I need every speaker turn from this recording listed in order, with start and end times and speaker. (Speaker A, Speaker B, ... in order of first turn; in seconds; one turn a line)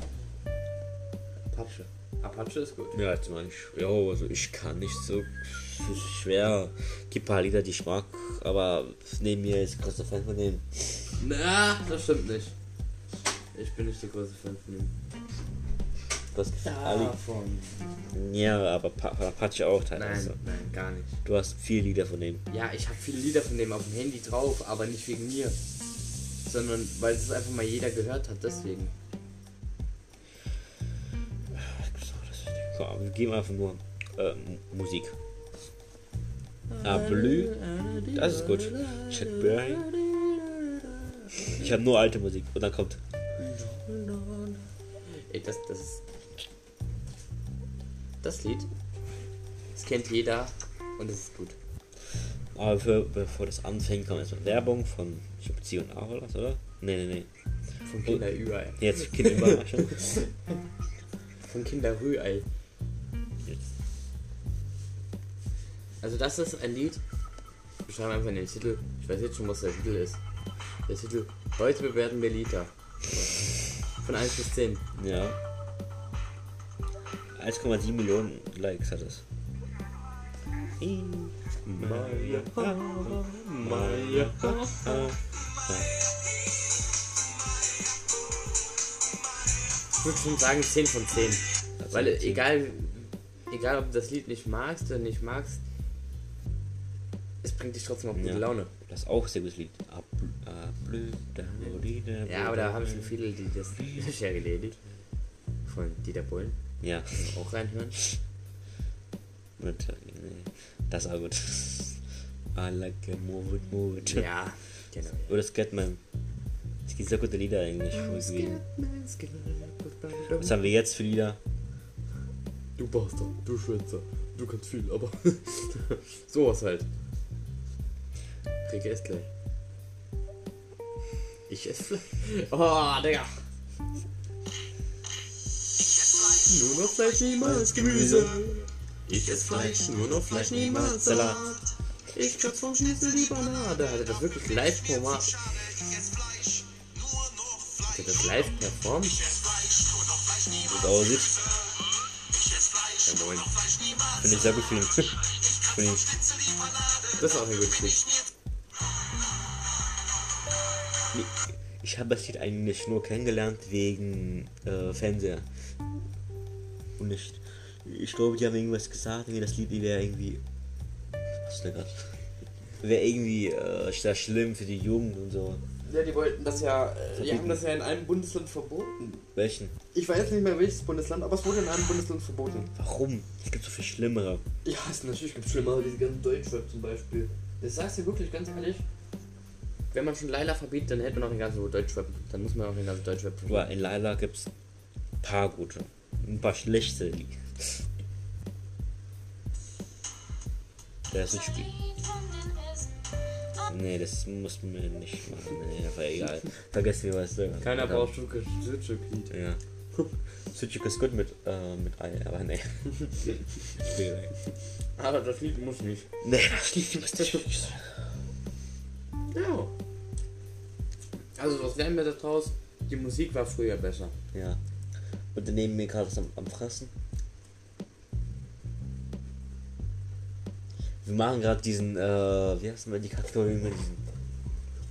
Speaker A: 1.5-3.0
Speaker B: 2.9-11.2
Speaker A: 11.2-12.5
Speaker A: 13.5-14.9
Speaker B: 16.3-17.1
Speaker A: 16.6-17.9
Speaker B: 18.1-20.4
Speaker A: 19.9-21.2
Speaker B: 21.2-22.4
Speaker A: 22.5-25.6
Speaker A: 26.4-28.9
Speaker B: 31.5-35.1
Speaker A: 36.7-41.7
Speaker B: 36.8-39.9
Speaker B: 41.4-43.0
Speaker A: 43.4-46.0
Speaker A: 48.2-48.7
Speaker A: 49.7-51.5
Speaker B: 52.5-57.3
Speaker A: 57.8-60.3
Speaker B: 58.8-60.1
Speaker A: 61.4-62.5
Speaker A: 66.0-67.0
Speaker A: 67.8-70.2
Speaker A: 70.9-74.8
Speaker B: 75.0-75.4
Speaker B: 77.3-79.2
Speaker B: 80.8-86.0
Speaker A: 81.7-85.1
Speaker A: 90.0-95.6
Speaker B: 91.8-92.5
Speaker A: 97.4-98.7
Speaker B: 98.1-103.1
Speaker A: 102.2-104.8
Speaker A: 105.7-106.6
Speaker B: 106.8-107.3
Speaker A: 107.1-108.0
Speaker B: 109.6-112.0
Speaker B: 112.5-114.3
Speaker A: 114.0-115.3
Speaker B: 115.3-116.0
Speaker B: 116.9-118.6
Speaker A: 117.9-120.7
Speaker B: 120.3-121.4
Speaker A: 122.8-126.8
Speaker A: 128.6-129.3
Speaker A: 131.5-133.4
Speaker A: 136.4-141.6
Speaker B: 137.4-138.7
Speaker B: 139.5-141.4
Speaker A: 142.1-145.4
Speaker A: 147.8-149.3
Speaker B: 150.6-151.4
Speaker A: 152.9-153.6
Speaker B: 154.1-156.1
Speaker A: 157.1-158.1
Speaker B: 161.1-165.5
Speaker B: 167.0-170.4
Speaker B: 171.3-172.2
Speaker B: 172.8-175.6
Speaker A: 175.8-179.2
Speaker B: 177.1-177.6
Speaker B: 179.3-179.7
Speaker A: 179.9-182.7
Speaker B: 182.8-184.4
Speaker A: 184.6-188.8
Speaker A: 189.9-193.7
Speaker B: 193.5-194.5
Speaker B: 195.2-197.9
Speaker B: 201.1-201.9
Speaker B: 203.7-208.1
Speaker A: 207.6-209.3
Speaker B: 209.3-209.6
Speaker B: 210.5-214.3
Speaker A: 215.0-216.1
Speaker B: 216.2-217.8
Speaker A: 217.0-217.5
Speaker A: 219.3-219.7
Speaker A: 221.3-224.1
Speaker B: 224.3-224.6
Speaker B: 225.3-226.9
Speaker B: 231.0-234.0